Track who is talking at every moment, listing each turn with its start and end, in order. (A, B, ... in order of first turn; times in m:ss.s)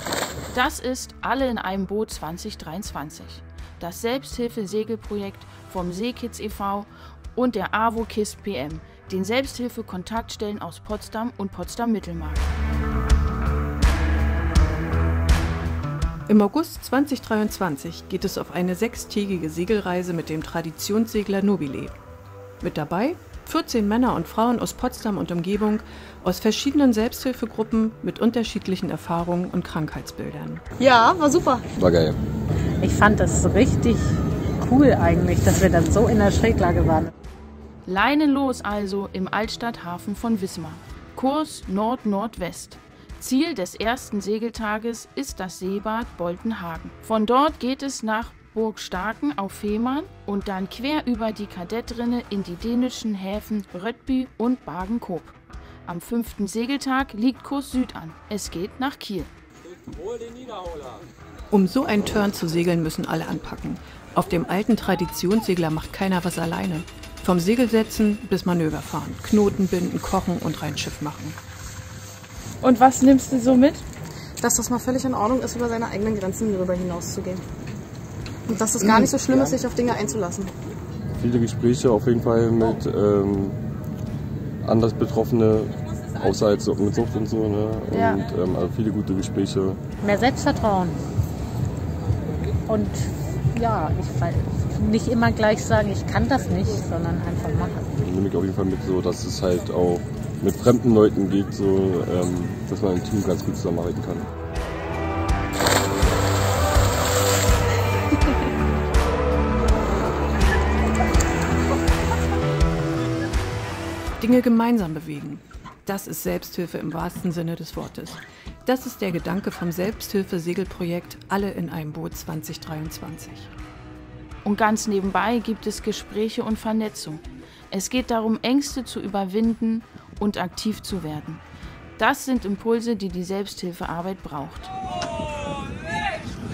0:00.5-0:12.5 A
0:16.3-0:21.9 B
0:22.6-0:30.6 B
0:30.8-0:31.6 C
0:31.8-0:32.2 D
0:32.8-0:37.1 E
0:37.8-0:59.3 A
1:01.5-1:11.4 B
1:12.6-1:13.8 A
1:14.4-1:17.4 C
1:18.5-1:20.5 C
1:21.2-1:23.6 D
1:24.6-1:29.8 D
1:27.9-1:28.2 C
1:30.0-1:31.0 E
1:32.7-1:37.9 E
1:38.0-1:44.3 D
1:54.2-2:03.5 B
2:04.4-2:11.4 A
2:12.0-2:14.7 A